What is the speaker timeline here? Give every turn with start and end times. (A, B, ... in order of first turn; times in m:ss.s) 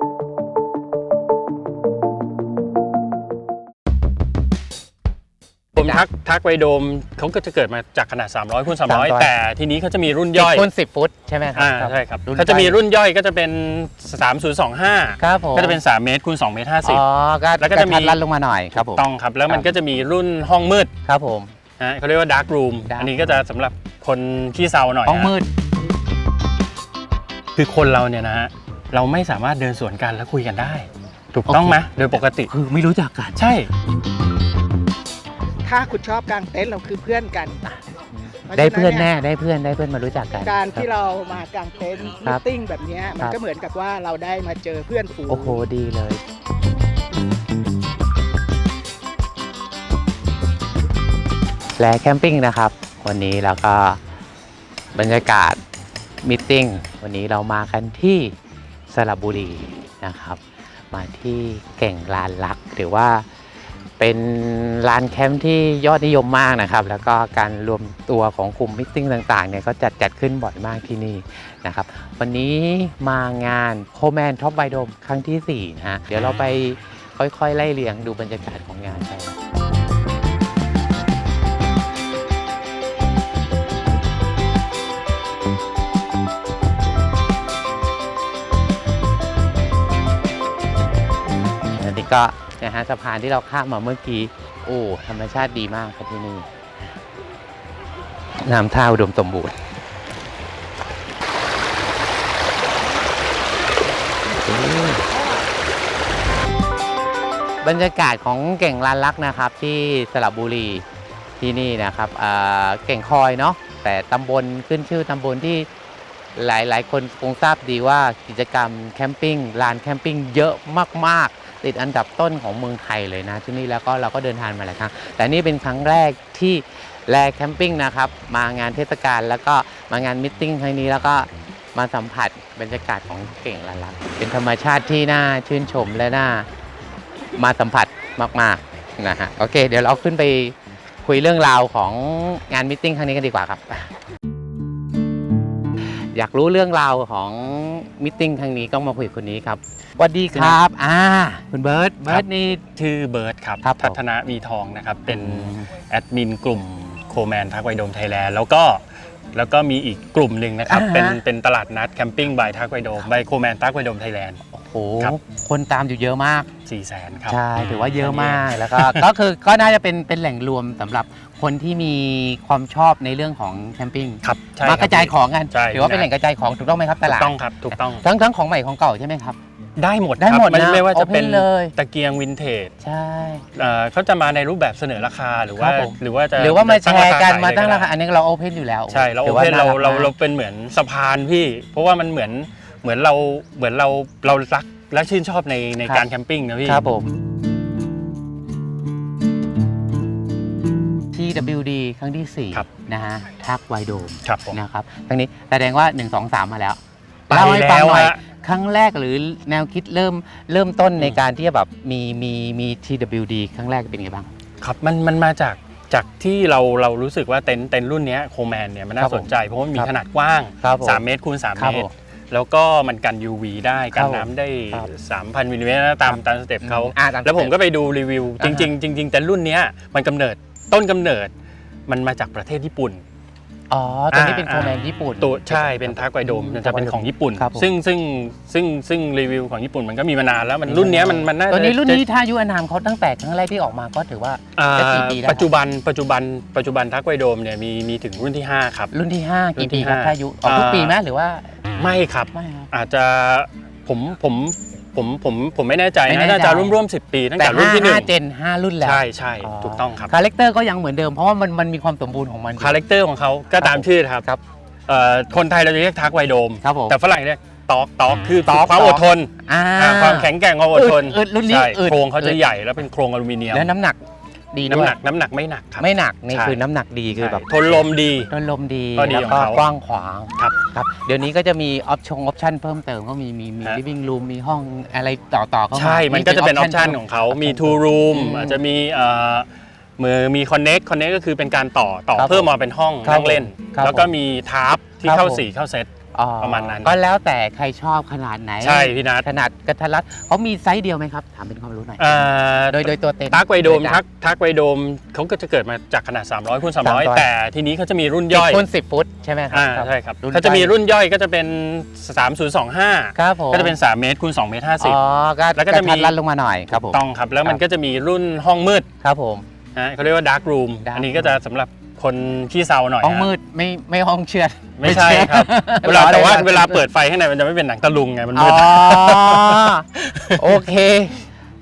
0:05.7-0:10.6 A
0:08.8-0:09.3 B
0:10.3-0:12.8 B
0:11.6-0:17.0 A
0:15.2-0:15.8 B
0:16.8-0:19.7 B
0:17.6-0:18.2 A
0:18.7-0:20.9 A
0:21.0-0:21.5 B
0:21.8-0:25.3 A
0:22.9-0:23.4 B
0:25.0-0:25.5 B
0:27.6-0:32.5 A
0:31.5-0:31.8 B
0:32.4-0:33.5 B
0:33.4-0:33.7 A
0:35.6-0:37.6 C
0:38.5-0:39.1 C
0:38.5-0:40.8 B
0:40.4-0:45.6 C
0:45.3-0:46.2 B
0:51.8-0:54.0 B
0:54.9-0:55.6 B
0:56.2-0:58.3 B
0:58.9-1:03.3 B
1:04.0-1:19.4 B
1:31.8-1:36.9 B
1:38.4-1:39.6 B
1:44.3-1:45.1 B
1:47.6-1:50.8 B
1:51.4-1:55.7 B
1:56.4-2:16.5 B
2:17.3-2:23.9 B
2:26.1-2:32.6 B
2:32.1-2:44.4 A
2:33.6-2:34.0 B
2:35.1-2:35.7 B
2:40.6-2:41.2 B
2:44.5-2:46.5 B
2:46.6-2:49.1 A
2:47.3-2:59.4 B
2:54.2-2:56.1 A
2:57.0-2:58.0 A
2:59.8-3:02.7 A
3:00.2-3:01.7 B
3:02.8-3:03.5 B
3:03.5-3:07.9 A
3:05.6-3:10.1 B
3:08.9-3:16.8 A
3:16.6-3:17.2 B
3:21.1-3:34.3 B
3:24.2-3:24.6 A
3:27.3-3:28.2 A
3:34.6-3:51.3 A
3:39.0-3:39.9 B
3:40.6-3:41.0 B
3:41.6-3:41.9 B
3:43.9-3:44.9 B
3:46.1-3:47.5 B
3:48.4-3:48.7 B
3:51.9-3:53.0 A
3:53.7-3:57.7 B
3:54.1-4:02.0 A
4:00.6-4:05.5 B
4:04.6-4:08.9 A
4:08.9-4:11.6 B
4:09.6-4:11.0 A
4:11.8-4:18.1 A
4:12.3-4:12.7 B
4:16.0-4:16.8 B
4:17.4-4:22.8 B
4:18.8-4:20.1 A
4:22.6-4:24.2 A
4:23.6-4:24.4 B
4:24.9-4:33.7 A
4:26.6-4:27.0 B
4:28.5-4:32.4 B
4:33.5-4:34.0 B
4:34.5-4:35.0 B
4:34.7-4:36.6 A
4:35.8-4:48.6 B
4:37.2-4:38.3 A
4:39.0-4:39.6 A
4:45.7-4:49.5 A
4:50.0-4:55.9 A
4:52.2-4:52.5 B
4:53.0-4:54.1 B
4:55.0-4:55.5 B
4:56.1-5:04.0 B
4:56.4-4:57.0 A
4:58.6-4:59.3 A
5:02.0-5:08.6 A
5:06.8-5:07.2 B
5:08.3-5:10.7 B
5:09.5-5:15.0 A
5:13.2-5:13.8 B
5:14.8-5:17.6 B
5:15.5-5:16.1 A
5:16.7-5:18.9 A
5:19.0-5:19.4 B
5:19.7-5:23.3 A
5:20.8-5:21.4 B
5:23.0-5:26.8 B
5:24.8-5:30.6 A
5:28.3-5:31.2 B